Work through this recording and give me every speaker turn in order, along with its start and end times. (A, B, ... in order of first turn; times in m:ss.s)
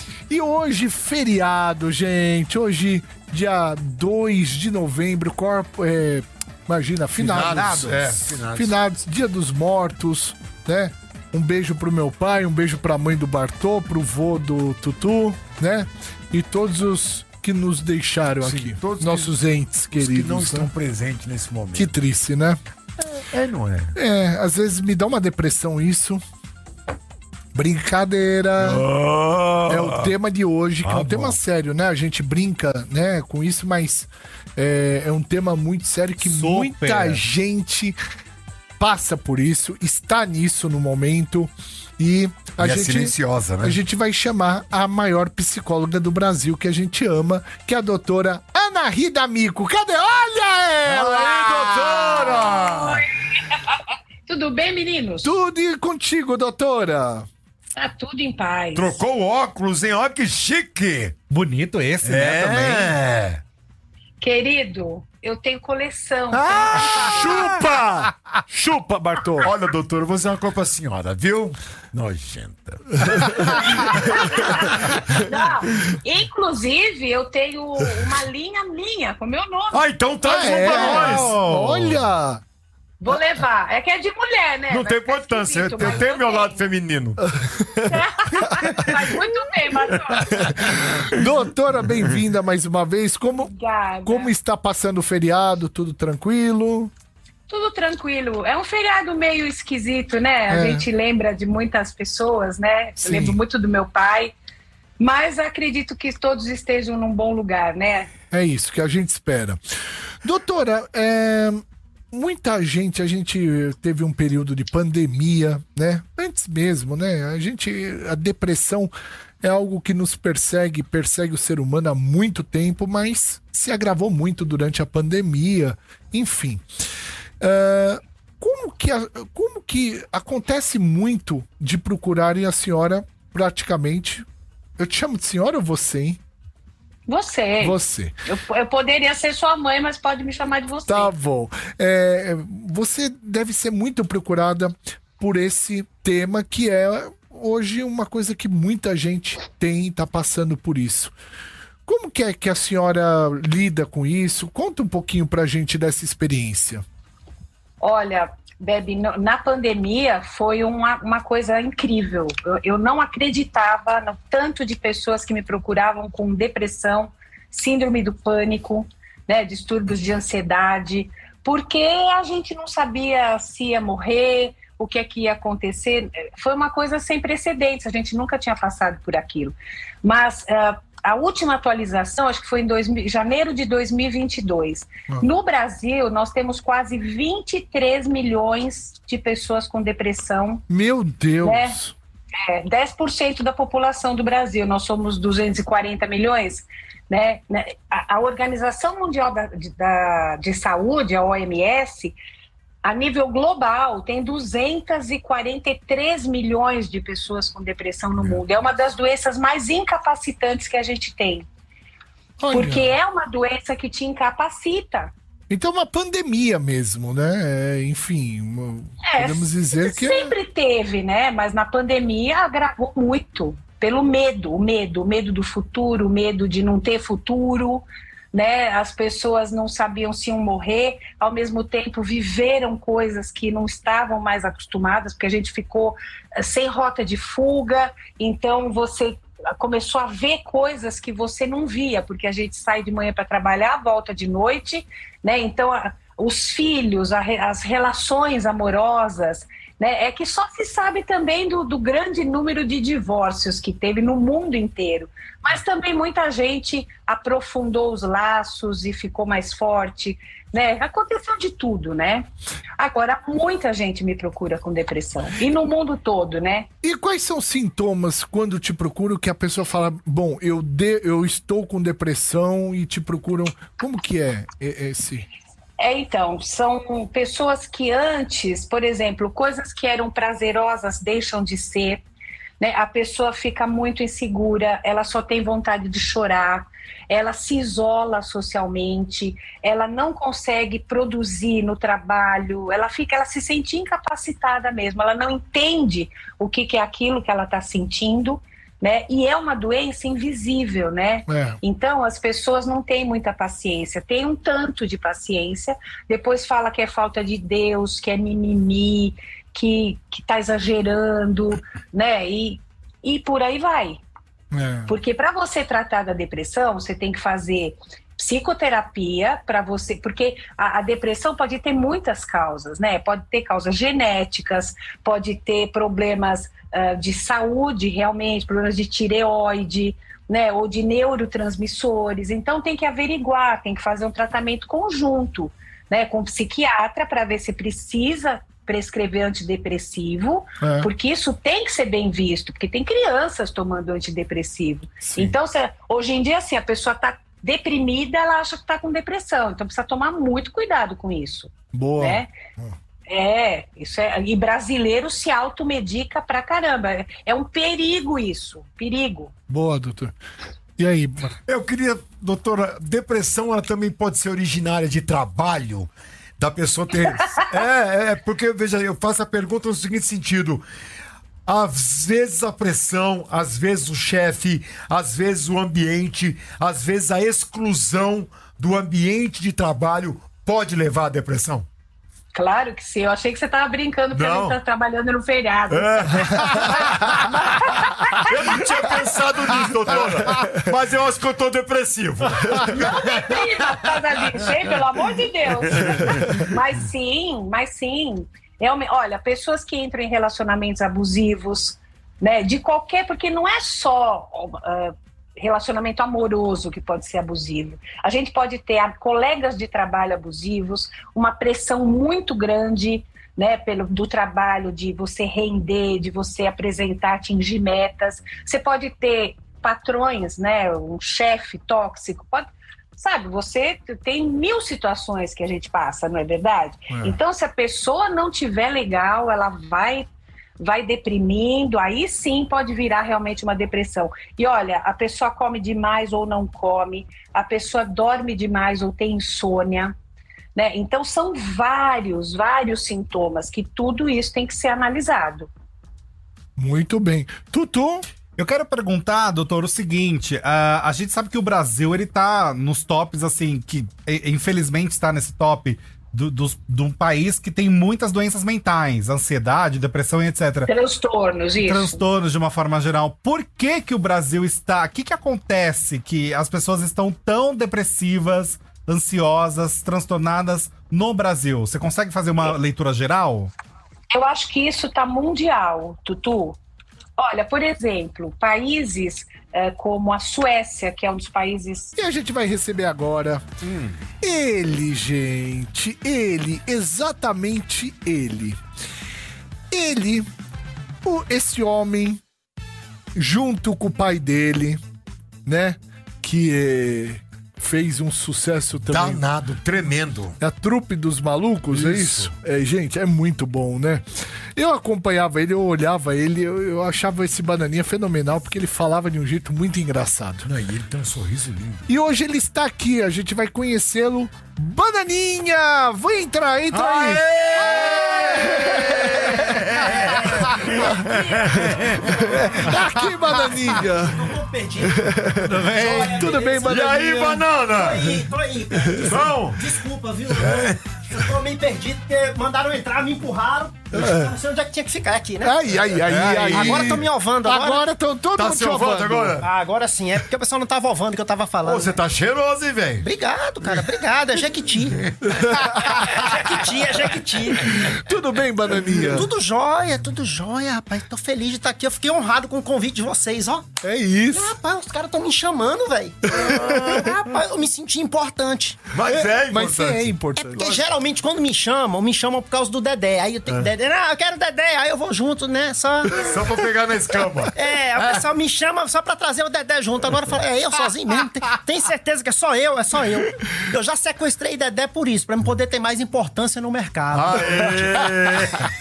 0:00.3-0:20.7 A
0:07.2-0:08.7 B
0:07.3-0:08.1 C
0:18.4-0:19.3 B
0:19.9-0:21.9 B
0:21.7-0:22.6 A
0:23.2-0:23.9 B
0:23.9-0:26.2 A
0:27.5-0:28.8 A
0:28.6-0:30.1 B
0:29.7-0:38.0 A
0:30.8-0:31.3 B
0:36.2-0:37.2 C
0:38.8-0:52.3 A
0:42.6-0:43.8 B
0:50.8-0:53.0 B
0:52.6-0:55.3 D
0:55.2-0:57.3 A
0:57.8-0:59.0 D
0:58.7-1:01.1 B
1:01.3-1:02.9 C
1:02.0-1:03.4 B
1:04.2-1:07.2 D
1:06.5-1:07.4 C
1:06.9-1:09.5 A
1:07.2-1:07.8 B
1:09.4-1:15.2 B
1:15.1-1:19.8 D
1:19.7-1:21.4 B
1:20.2-1:22.4 A
1:20.4-1:20.9 D
1:20.8-1:22.0 C
1:23.0-1:26.7 D
1:24.7-1:27.2 B
1:27.9-1:30.4 D
1:28.6-1:28.9 B
1:30.2-1:31.2 B
1:30.5-1:33.5 A
1:33.4-1:34.3 D
1:34.0-1:36.9 A
1:37.5-1:44.3 D
1:40.5-1:40.8 A
1:43.0-1:43.4 A
1:45.0-1:48.1 D
1:48.3-1:49.6 A
1:50.2-2:06.6 A
2:07.4-2:14.2 A
2:14.8-2:16.2 A
2:17.1-2:21.1 D
2:17.6-2:18.1 A
2:20.9-2:31.1 A
2:31.8-2:36.8 A
2:37.8-3:10.6 D
3:10.7-3:11.9 A
3:11.4-3:11.8 D
3:12.4-3:22.1 D
3:22.8-3:31.4 D
3:32.4-3:32.9 A
3:32.5-3:35.1 D
3:35.5-3:40.3 A
3:39.0-4:26.7 D
4:26.8-4:35.3 A
4:35.8-4:42.0 D
4:42.6-5:14.0 D
5:01.3-5:01.6 A
5:14.5-5:14.9 A
5:14.9-5:52.3 D
5:40.6-5:40.9 A
5:45.0-5:45.3 A
5:51.7-5:52.2 A
5:53.1-5:59.3 D
5:59.5-6:00.1 A
6:00.8-6:01.4 A
6:01.5-6:10.6 B
6:11.4-6:21.7 B
6:22.3-6:26.7 D
6:24.1-6:24.6 B
6:25.7-6:33.7 B
6:27.2-6:28.3 D
6:32.7-7:10.1 D
6:35.7-6:36.4 B
7:10.6-7:19.9 D
7:20.5-7:25.5 D
7:26.6-7:28.0 A
7:28.4-7:40.7 C
7:40.6-7:42.0 D
7:41.6-7:53.5 C
7:54.1-7:56.6 D
7:57.2-8:02.0 D
8:02.0-8:03.4 A
8:04.2-8:08.6 A
8:09.7-8:10.3 A
8:11.0-8:12.2 A
8:13.1-8:14.8 A
8:15.4-8:19.2 A
8:18.8-8:20.4 B
8:20.4-8:30.5 A
8:21.7-8:22.3 B
8:30.4-8:31.8 B
8:31.9-8:37.2 A
8:36.7-8:42.8 B
8:37.8-8:41.0 A
8:40.0-8:41.6 E
8:41.6-8:47.5 A
8:44.0-8:45.2 E
8:45.5-8:46.2 C
8:45.6-8:48.3 B
8:45.8-8:46.8 E
8:47.7-8:55.6 E
8:48.8-8:49.2 A
8:48.9-8:49.8 B
8:50.3-8:51.3 B
8:53.9-8:54.3 A
8:55.4-8:59.4 A
8:56.0-8:57.0 B
8:56.5-8:57.8 E
8:58.4-8:59.5 B
8:59.4-9:01.9 E
9:01.6-9:03.1 B
9:03.0-9:05.1 E
9:03.6-9:03.9 B
9:05.0-9:06.3 B
9:05.2-9:06.2 A
9:05.9-9:07.9 E
9:07.6-9:09.3 A
9:09.1-9:13.7 E
9:13.8-9:14.6 A
9:14.3-9:18.8 E
9:16.3-9:17.2 A
9:16.4-9:17.0 B
9:18.9-9:20.8 B
9:19.0-9:20.8 A
9:20.4-9:26.2 E
9:23.5-9:23.7 B
9:26.1-9:28.2 B
9:27.5-9:37.6 E
9:37.1-9:38.7 B
9:37.4-9:38.3 A